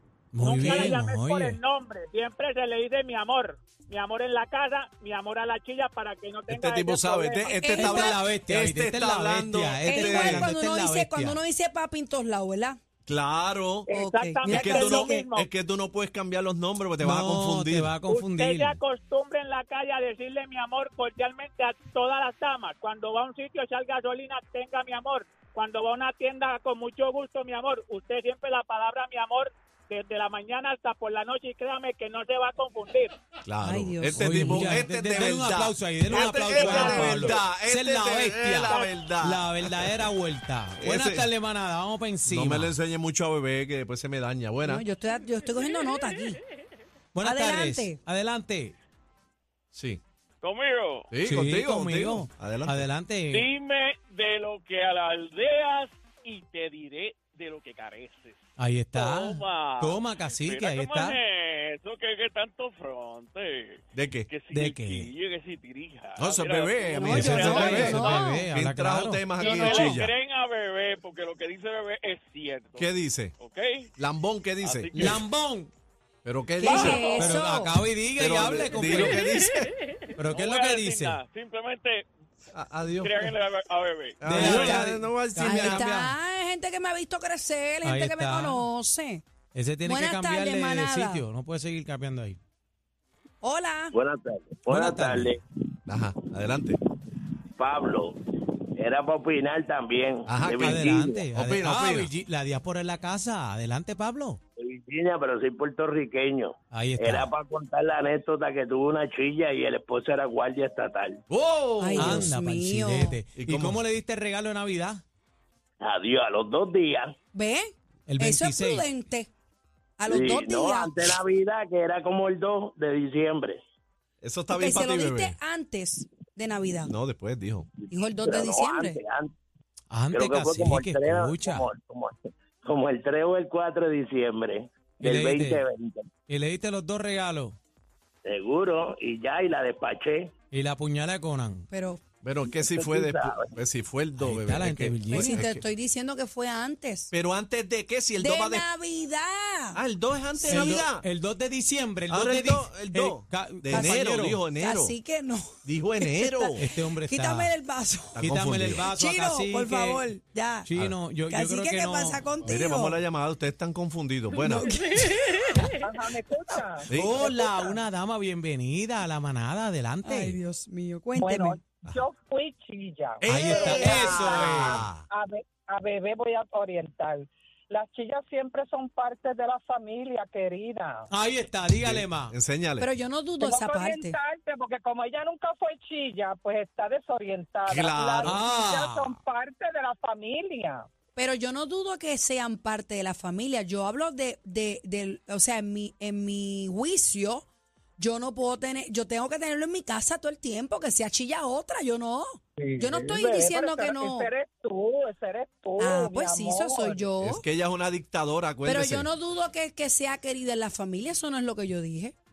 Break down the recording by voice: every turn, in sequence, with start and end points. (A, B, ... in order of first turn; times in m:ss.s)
0:00.3-0:01.6 A
0:00.4-0:07.8 B
0:06.5-0:10.5 C
0:07.8-0:11.4 A
0:07.8-0:08.2 D
0:09.9-0:12.8 D
0:13.1-0:13.9 C
0:13.9-0:15.3 D
0:13.9-0:15.5 B
0:14.4-0:18.0 C
0:17.0-0:18.8 A
0:18.1-0:33.2 B
0:33.4-0:40.1 C
0:33.6-0:34.6 D
0:34.2-0:42.7 A
0:36.4-0:37.3 D
0:36.5-0:36.9 B
0:40.8-0:41.3 C
0:42.2-0:44.8 C
0:44.6-0:46.4 D
0:47.2-0:48.8 A
0:47.2-0:48.0 D
0:49.7-0:50.0 C
0:50.4-0:51.1 E
0:51.1-0:52.9 C
0:51.2-0:53.5 A
0:53.3-0:58.4 E
0:58.6-1:01.2 A
0:58.9-1:08.3 E
1:03.9-1:04.3 C
1:04.5-1:05.1 A
1:06.2-1:10.1 C
1:06.9-1:08.5 D
1:07.1-1:10.0 A
1:09.4-1:13.9 E
1:12.8-1:13.4 C
1:14.0-1:15.2 C
1:14.6-1:15.2 E
1:14.9-1:15.7 A
1:16.2-1:17.2 C
1:16.6-1:17.8 D
1:16.7-1:17.3 F
1:17.1-1:19.3 A
1:18.2-1:19.7 C
1:19.0-1:19.5 E
1:20.2-1:21.2 A
1:20.2-1:22.1 E
1:22.5-1:23.3 C
1:23.0-1:24.4 E
1:24.2-1:25.9 C
1:24.2-1:26.2 A
1:25.4-1:29.2 D
1:27.8-1:28.7 A
1:29.5-1:32.4 A
1:29.8-1:31.2 D
1:33.4-1:34.0 D
1:33.9-1:35.4 G
1:34.7-1:35.3 A
1:35.9-1:36.8 C
1:37.6-1:38.2 G
1:38.7-1:41.2 G
1:40.3-1:42.1 C
1:40.4-1:44.4 A
1:44.6-1:51.2 G
1:46.7-1:47.3 A
1:51.3-1:52.3 C
1:51.8-1:53.2 D
1:52.0-1:55.0 A
1:53.4-1:53.8 C
1:55.8-1:57.1 G
1:57.3-1:59.3 D
1:58.1-1:58.9 A
2:00.0-2:01.1 D
2:00.1-2:03.6 G
2:04.2-2:05.4 C
2:04.6-2:06.9 D
2:06.9-2:07.7 C
2:07.8-2:09.3 G
2:07.9-2:09.0 D
2:09.9-2:11.7 A
2:10.1-2:16.1 G
2:15.0-2:15.6 A
2:16.3-2:17.6 A
2:18.2-2:20.3 G
2:20.5-2:21.7 A
2:21.7-2:22.0 D
2:22.2-2:25.6 C
2:22.6-2:23.5 G
2:24.2-2:25.4 A
2:25.1-2:27.1 D
2:27.1-2:28.7 C
2:28.2-2:29.8 D
2:29.7-2:31.0 C
2:30.4-2:30.8 D
2:30.5-2:34.4 A
2:32.1-2:35.0 C
2:33.7-2:34.0 D
2:34.6-2:38.2 D
2:35.6-2:36.6 C
2:36.6-2:37.5 A
2:38.2-2:40.1 A
2:38.2-2:38.9 C
2:38.9-2:40.7 D
2:40.6-2:42.2 A
2:41.3-2:43.0 D
2:42.4-2:44.7 C
2:44.4-2:45.7 D
2:45.8-2:47.8 F
2:46.9-2:47.2 C
2:46.9-2:50.4 A
2:50.0-2:51.6 D
2:51.2-3:01.1 F
2:53.2-2:55.0 C
2:53.3-2:54.8 A
2:53.6-2:53.9 D
3:01.1-3:02.3 A
3:01.8-3:02.9 C
3:02.8-3:04.2 D
3:03.4-3:10.9 F
3:07.7-3:08.4 C
3:08.2-3:09.2 A
3:11.2-3:17.5 D
3:18.0-3:24.3 D
3:22.6-3:27.1 F
3:25.8-3:27.4 D
3:27.2-3:29.1 C
3:28.6-3:32.2 D